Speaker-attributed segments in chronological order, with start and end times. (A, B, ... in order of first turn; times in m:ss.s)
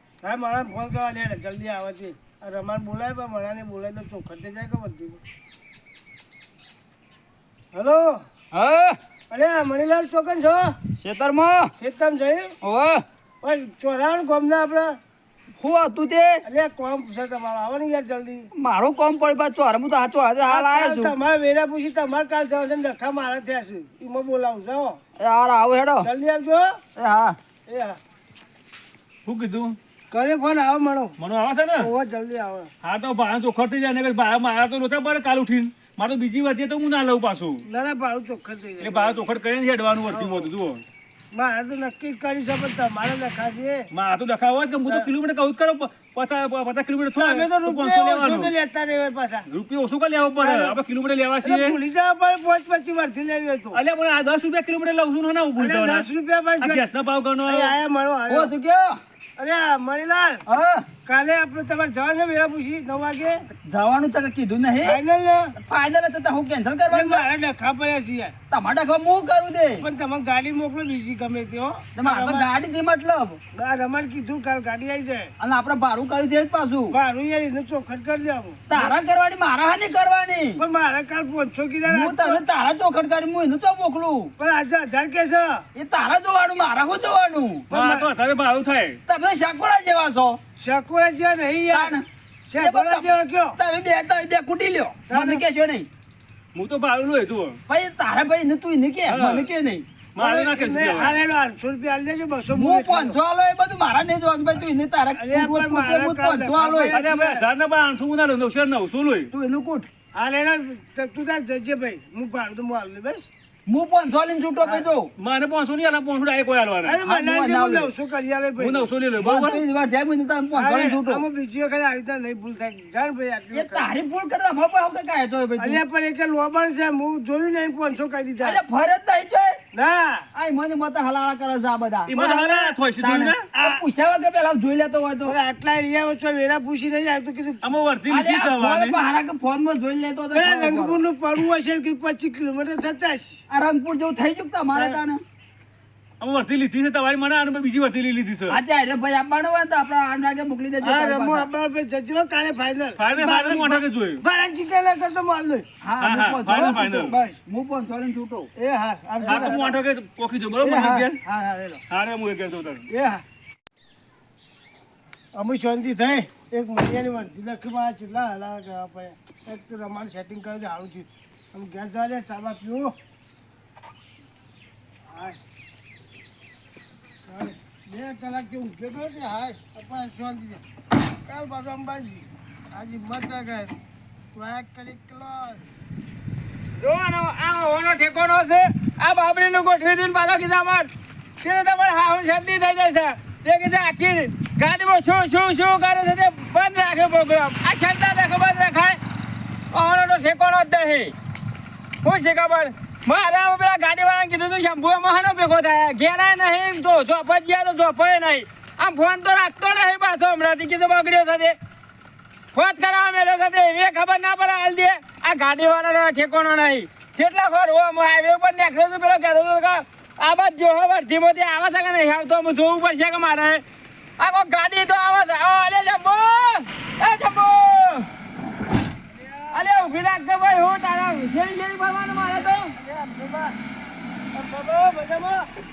0:00.2-0:05.2 A
0:07.7-0:08.2 A
0:08.5-0:09.0 B
0:09.3-0:10.8 A
0:11.0-0:11.7 B
0:11.8-0:12.5 A
0:12.6-0:13.0 B
0:13.4-0:14.9 A
0:15.6-0:16.4 B
0:16.4-0:18.5 A
0:18.5-0:21.1 B
0:20.4-0:25.0 A
0:25.2-0:26.1 B
0:26.0-0:26.8 A
0:27.0-0:27.4 B
0:27.7-0:28.0 A
0:29.2-0:29.8 C
0:30.1-0:31.1 A
0:31.2-0:31.9 C
0:31.8-0:32.7 A
0:32.8-0:37.6 C
0:37.6-0:39.2 A
0:38.8-0:40.8 C
0:40.0-0:40.5 A
0:41.3-0:43.9 A
0:43.9-0:48.5 C
0:47.2-0:49.4 A
0:49.5-0:51.8 C
0:50.4-0:50.8 A
0:51.4-0:53.8 A
0:53.7-0:56.1 C
0:55.6-0:56.8 A
0:56.6-0:57.8 C
0:57.4-0:58.5 A
0:58.3-0:59.0 B
0:59.4-1:00.4 A
1:00.4-1:00.8 B
1:01.0-1:03.4 A
1:03.6-1:05.0 B
1:04.8-1:05.5 A
1:05.6-1:07.3 B
1:06.9-1:08.3 A
1:08.5-1:09.8 B
1:09.8-1:12.5 A
1:12.0-1:13.4 B
1:13.5-1:15.3 A
1:15.4-1:17.0 B
1:16.9-1:18.9 A
1:18.7-1:20.6 B
1:20.6-1:22.4 A
1:21.9-1:24.3 B
1:24.4-1:25.6 A
1:25.7-1:27.7 B
1:27.7-1:28.1 A
1:27.7-1:29.0 C
1:29.1-1:30.4 B
1:30.6-1:33.6 A
1:31.7-1:32.0 B
1:32.6-1:35.9 B
1:35.1-1:35.4 A
1:36.5-1:37.6 C
1:37.7-1:39.8 B
1:39.1-1:39.5 C
1:40.2-1:41.2 C
1:40.2-1:43.2 A
1:42.5-1:47.0 B
1:45.1-1:47.4 A
1:46.8-1:49.3 C
1:49.3-1:49.9 B
1:50.1-1:53.3 A
1:53.6-1:55.1 B
1:54.6-1:54.9 A
1:55.2-1:57.0 C
1:56.8-1:58.9 A
1:57.0-1:57.9 B
1:58.6-1:59.6 C
1:59.2-2:01.2 B
2:00.5-2:03.9 A
2:03.5-2:05.8 B
2:05.6-2:08.6 A
2:08.4-2:09.6 B
2:09.7-2:10.2 A
2:10.3-2:12.2 B
2:12.1-2:13.4 C
2:12.1-2:12.8 A
2:13.0-2:15.3 B
2:13.5-2:13.8 A
2:15.2-2:17.7 A
2:17.6-2:19.0 C
2:18.1-2:21.0 B
2:20.3-2:23.4 A
2:23.5-2:25.2 B
2:24.7-2:25.0 A
2:26.2-2:28.6 C
2:28.5-2:31.5 B
2:30.8-2:35.6 A
2:33.0-2:34.2 C
2:35.8-2:38.5 B
2:36.0-2:37.2 C
2:36.4-2:37.4 A
2:38.6-2:39.8 A
2:39.2-2:41.2 C
2:40.6-2:41.8 A
2:41.9-2:42.9 C
2:42.9-2:43.2 A
2:45.3-2:52.9 A
2:55.1-2:55.4 A
2:57.3-3:00.6 A
3:01.2-3:03.7 A
3:04.3-3:05.6 A
3:06.8-3:10.9 D
3:11.4-3:19.0 D
3:19.7-3:21.1 D
3:22.0-3:31.6 D
3:32.5-3:43.6 D
3:44.2-3:48.1 D
3:49.1-3:49.7 A
3:49.5-3:52.7 D
3:52.3-3:53.6 A
3:54.3-3:55.5 A